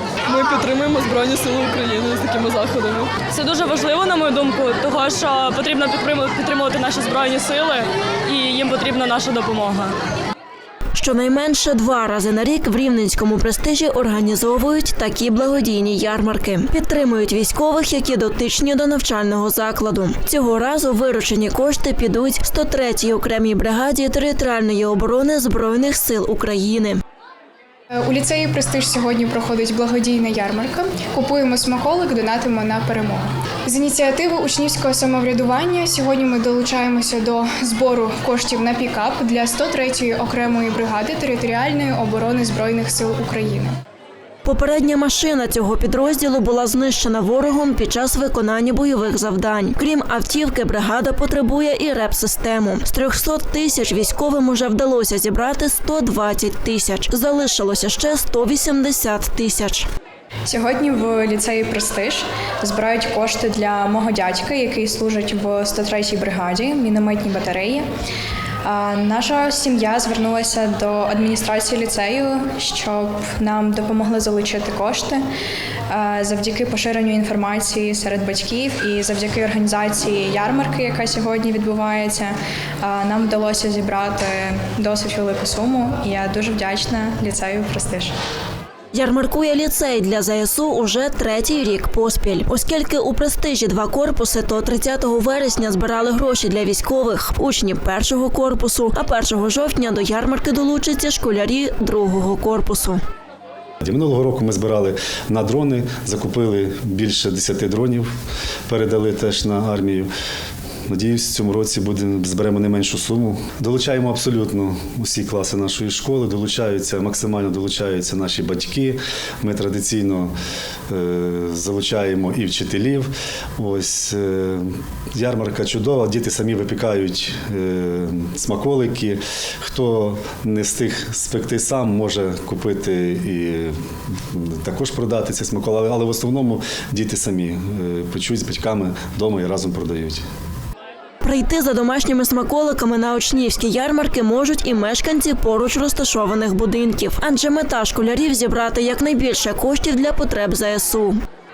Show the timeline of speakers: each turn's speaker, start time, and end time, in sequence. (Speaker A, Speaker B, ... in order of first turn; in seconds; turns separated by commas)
Speaker A: 0.3-3.1, Speaker B: 3.2-9.9, Speaker C: 10.9-27.0, Speaker D: 28.0-43.7, Speaker C: 44.5-59.9, Speaker D: 60.5-67.8, Speaker D: 68.6-75.2, Speaker D: 75.9-88.1, Speaker C: 88.9-103.0, Speaker E: 103.8-108.1, Speaker E: 108.7-110.1, Speaker E: 110.9-120.3, Speaker E: 120.9-133.8, Speaker E: 134.3-140.2, Speaker C: 141.2-151.2